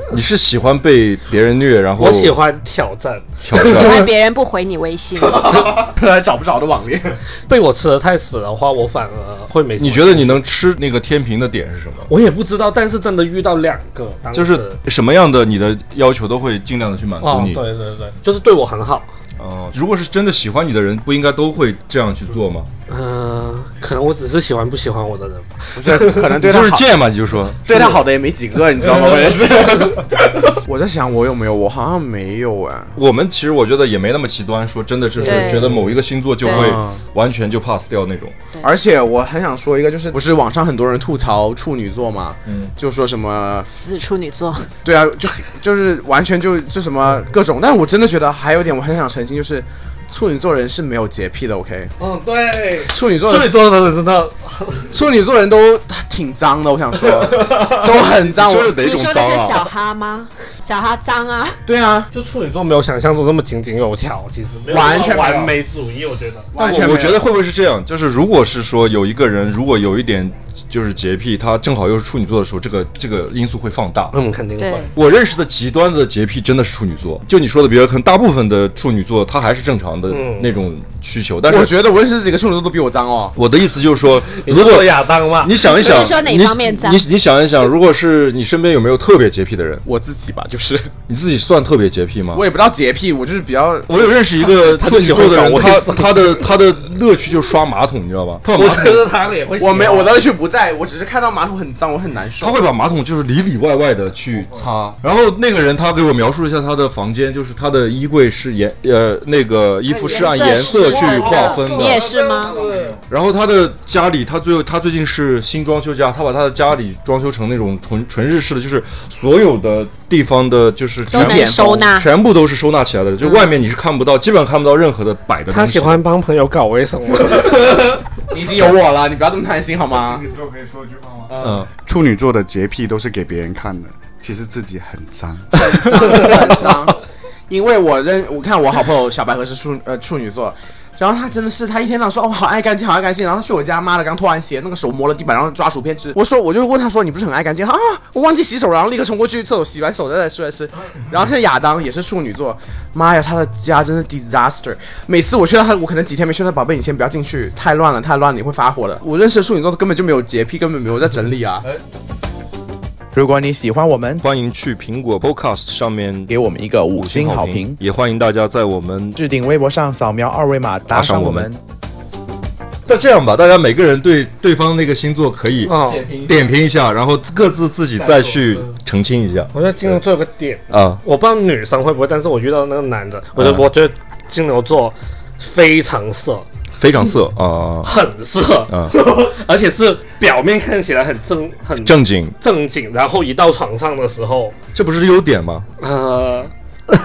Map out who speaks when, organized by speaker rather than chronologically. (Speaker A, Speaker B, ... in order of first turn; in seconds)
Speaker A: 0.1-2.4, 3.4-4.1, 9.8-12.1, 14.3-17.6, 19.4-22.7, 26.3-28.0, 33.0-38.4, 42.5-42.7, 57.2-59.7, 66.5-74.1, 74.9-81.7, 83.3-89.8, 91.1-92.4, 93.9-99.1, 102.4-112.0, 113.1-126.0, 131.4-131.7, 164.2-166.3, 166.9-169.2, 170.9-171.5, 172.9-180.0, 180.7-181.0, 183.3-183.7, 186.8-187.9, 188.7-189.0, 191.8-192.3, 194.7-195.7
Speaker B: 2.0-3.9, 7.5-10.4, 12.1-14.8, 17.2-19.1, 22.9-26.2, 52.0-54.9, 62.1-66.5, 74.1-74.9, 80.1-80.5, 84.3-85.5, 94.5-96.3, 98.5-100.2, 110.7-113.0, 125.5-127.9, 175.6-176.1, 179.5-186.4, 187.8-194.6, 195.8-196.5
Speaker C: 3.5-5.6, 35.2-35.9, 36.4-36.8, 43.6-44.7, 58.8-61.6, 74.6-74.9, 85.6-87.0, 109.9-112.5, 121.1-122.1
Speaker D: 5.2-7.2, 25.8-26.9, 27.6-33.0, 36.5-37.0, 38.6-43.7, 44.8-51.9, 52.8-53.5, 54.9-58.8, 61.6-62.1, 64.7-65.6, 66.5-67.2, 81.5-83.3, 89.8-90.9, 92.3-94.1, 99.6-102.6, 104.6-104.9, 121.1-121.9, 128.3-130.3, 131.3-131.6, 135.5-137.0, 137.5-161.7, 163.1-164.2, 166.3-167.8, 169.2-171.5, 175.8-176.5, 178.0-178.4
Speaker E: 112.4-113.0, 130.1-135.4